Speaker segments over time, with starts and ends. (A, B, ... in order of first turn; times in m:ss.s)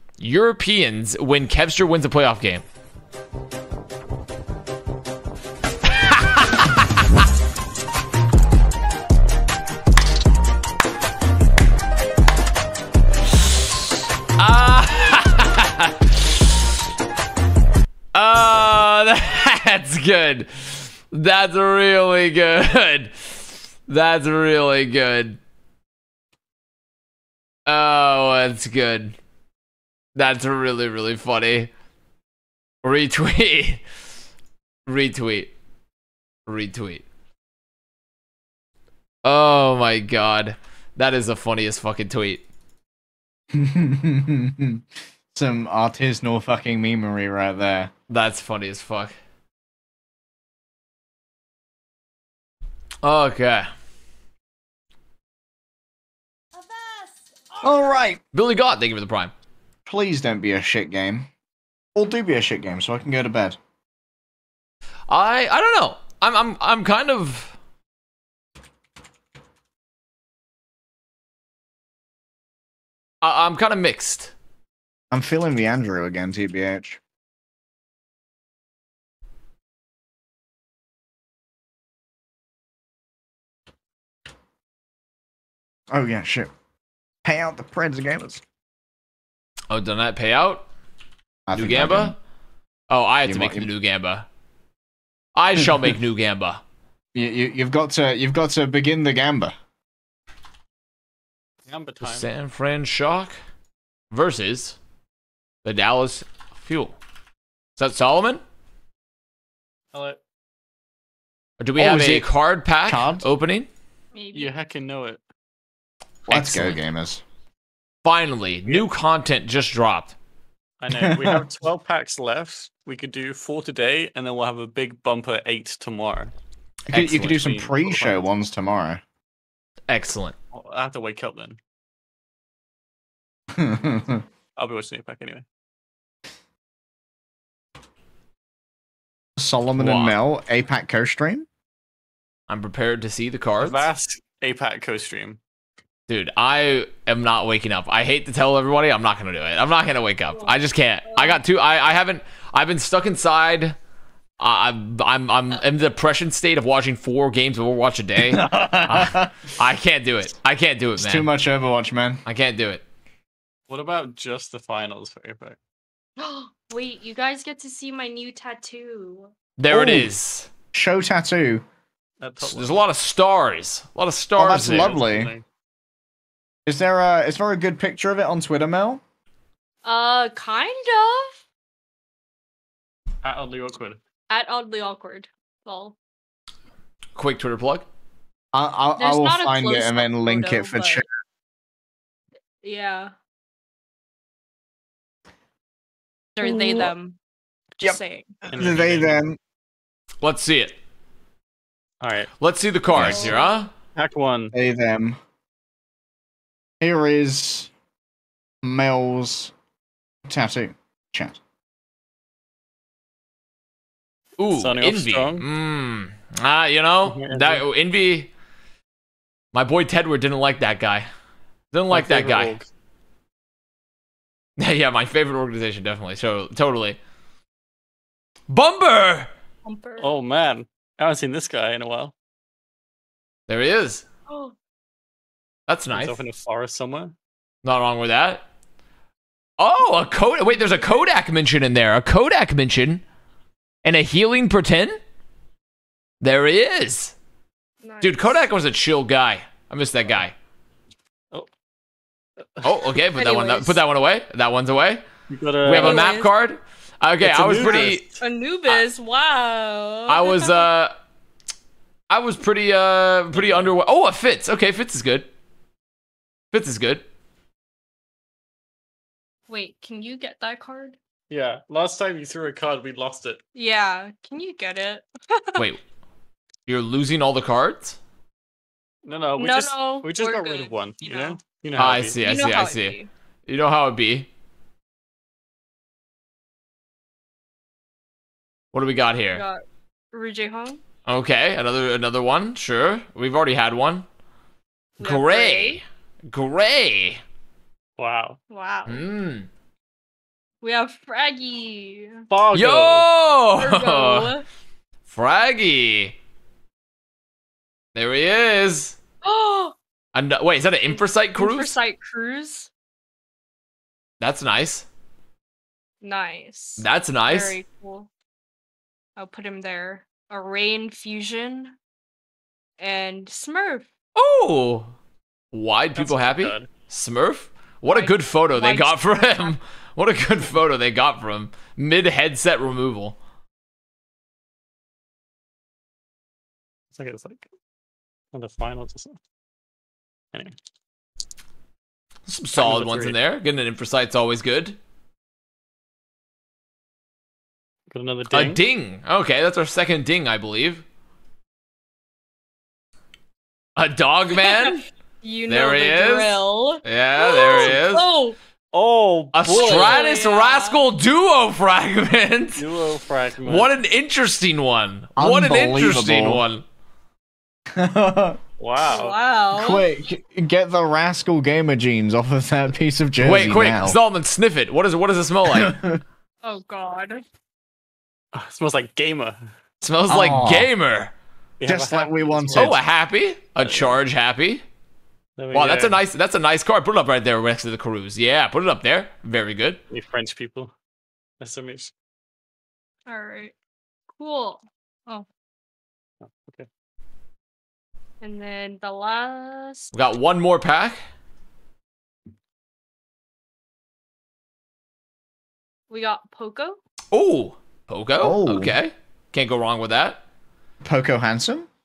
0:00.2-0:02.6 A
0:06.1-0:06.6 A
0:14.4-0:16.1 A
0:18.1-0:25.4 A
0:27.6-0:29.2 A
0:30.1-0:31.7 A
0:32.8-0:33.8 A
0:34.8-0:35.5 A
0:36.5-0:37.0 A
0:39.2-0:42.4 A
0:43.5-0:47.9 B
0:48.1-0:49.1 A
0:53.0-0:53.7 A
0:56.6-0:57.1 C
0:57.6-0:58.2 B
0:58.3-0:59.3 A
0:59.8-1:01.3 B
1:01.9-1:03.6 B
1:05.1-1:07.6 A
1:13.2-1:14.3 A
1:15.1-1:17.0 B
1:25.9-1:26.5 B
1:27.2-1:28.4 B
1:29.7-1:30.6 A
1:31.5-1:32.1 B
1:31.5-1:32.2 A
1:32.9-1:34.2 A
1:33.2-1:33.7 B
1:35.3-1:36.6 A
1:37.1-1:39.5 B
1:41.6-1:42.3 D
1:42.0-1:43.4 A
1:44.1-1:44.8 A
1:45.6-1:47.0 A
1:47.8-1:48.4 A
1:49.9-1:50.2 D
1:51.6-1:53.7 A
1:51.8-1:52.3 B
1:52.8-1:53.3 B
1:54.1-1:54.5 C
1:54.3-1:55.2 D
1:56.3-1:57.2 B
1:56.3-1:56.8 A
1:58.0-2:00.1 A
2:00.8-2:06.3 D
2:00.9-2:01.4 B
2:06.9-2:09.0 B
2:06.9-2:07.7 A
2:07.2-2:08.2 D
2:09.9-2:10.3 A
2:10.5-2:11.6 D
2:13.5-2:14.2 B
2:14.6-2:15.4 D
2:19.4-2:21.5 B
2:19.8-2:20.2 A
2:22.5-2:23.9 A
2:23.6-2:25.4 D
2:26.1-2:33.8 A
2:31.1-2:31.4 C
2:34.4-2:41.3 A
2:38.2-2:39.3 B
2:41.0-2:42.2 B
2:42.2-2:42.8 A
2:43.7-2:45.6 D
2:46.2-2:49.3 C
2:49.6-2:50.5 A
2:49.7-2:50.1 B
2:50.7-2:51.6 B
2:52.2-2:52.8 D
2:52.4-2:55.0 A
2:54.4-2:55.3 B
2:54.5-2:55.4 D
2:56.6-2:59.0 B
2:59.8-3:01.4 C
3:03.2-3:04.0 D
3:04.3-3:06.0 C
3:07.2-3:07.9 A
3:08.5-3:11.0 B
3:09.0-3:11.0 C
3:12.6-3:13.1 C
3:16.4-3:17.2 C
3:16.4-3:16.9 B
3:17.8-3:18.4 C
3:18.5-3:19.2 D
3:18.5-3:19.4 B
3:20.2-3:20.8 A
3:22.0-3:22.3 D
3:22.4-3:23.7 A
3:22.9-3:23.4 B
3:23.1-3:23.6 C
3:23.9-3:24.5 D
3:24.5-3:25.2 B
3:26.8-3:27.7 B
3:28.6-3:29.5 B
3:30.3-3:31.4 B
3:34.4-3:38.3 A
3:34.5-3:35.4 D
3:37.0-3:37.6 D
3:39.5-3:41.1 A
3:41.7-3:42.6 A
3:41.9-3:42.7 D
3:44.6-3:47.0 A
3:48.5-3:49.3 A
3:49.6-3:50.1 C
3:50.0-3:52.1 D
3:53.5-3:54.0 A
3:54.3-3:54.5 C
3:55.7-3:56.2 A
3:55.9-3:57.1 D
3:57.6-3:58.4 A
3:59.6-4:03.0 A
4:03.8-4:05.0 A
4:06.2-4:07.1 A
4:07.8-4:08.4 C
4:08.0-4:10.3 A
4:12.6-4:15.0 A
4:13.1-4:13.8 C
4:15.3-4:16.1 D
4:15.6-4:18.0 A
4:15.7-4:16.3 C
4:17.2-4:18.2 D
4:17.6-4:20.6 C
4:20.1-4:20.9 A
4:22.1-4:25.3 A
4:23.3-4:23.7 D
4:26.5-4:27.0 A
4:29.5-4:31.0 C
4:31.3-4:33.4 D
4:33.5-4:35.6 C
4:36.6-4:38.0 A
4:39.0-4:42.2 D
4:39.4-4:41.4 C
4:41.8-4:44.3 A
4:42.2-4:43.1 C
4:48.7-4:49.4 A
4:49.3-4:50.8 C
4:51.0-4:54.0 A
4:55.0-4:55.8 C
4:55.0-4:57.2 A
4:58.0-4:58.4 D
4:58.5-4:59.0 C
4:58.9-4:59.5 A
5:00.6-5:02.2 C
5:02.3-5:03.1 D
5:02.5-5:04.3 A
5:03.6-5:04.4 C
5:05.1-5:06.2 A
5:07.9-5:09.0 A
5:09.2-5:09.7 C
5:10.1-5:11.8 A
5:10.9-5:12.7 C
5:14.2-5:14.9 A
5:16.0-5:18.1 C
5:16.8-5:17.6 A
5:19.2-5:21.7 C
5:22.8-5:23.9 C
5:24.2-5:24.9 A
5:25.5-5:33.2 A
5:25.9-5:26.7 D
5:27.8-5:29.5 C
5:36.9-5:37.5 D
5:38.3-5:39.2 D
5:42.2-5:44.8 A
5:42.5-5:43.2 D
5:47.9-5:48.6 D
5:48.3-5:50.8 A
5:53.8-5:54.8 A
5:54.4-5:58.4 C
5:55.5-5:58.1 A
5:58.7-6:00.0 D
5:59.3-6:02.6 A
5:59.6-6:00.8 C
6:02.6-6:03.7 D
6:03.4-6:06.6 A
6:05.2-6:06.4 B
6:07.7-6:08.4 B
6:08.6-6:09.2 D
6:08.8-6:09.8 C
6:09.5-6:14.0 B
6:13.2-6:15.7 A
6:15.5-6:16.0 B
6:16.4-6:17.2 C
6:18.3-6:19.5 D
6:19.8-6:21.1 A
6:20.1-6:20.7 B
6:21.6-6:22.8 D
6:21.6-6:22.8 B
6:22.5-6:24.6 A
6:23.6-6:24.0 D
6:25.4-6:26.0 D
6:25.5-6:29.8 A
6:29.9-6:30.7 D
6:31.4-6:31.9 D
6:33.1-6:33.5 C
6:34.2-6:35.2 C
6:36.2-6:36.7 D
6:38.2-6:39.9 C
6:39.9-6:41.0 A
6:45.9-6:46.8 C
6:47.1-6:50.2 A
6:48.2-6:48.8 B
6:50.8-6:51.7 B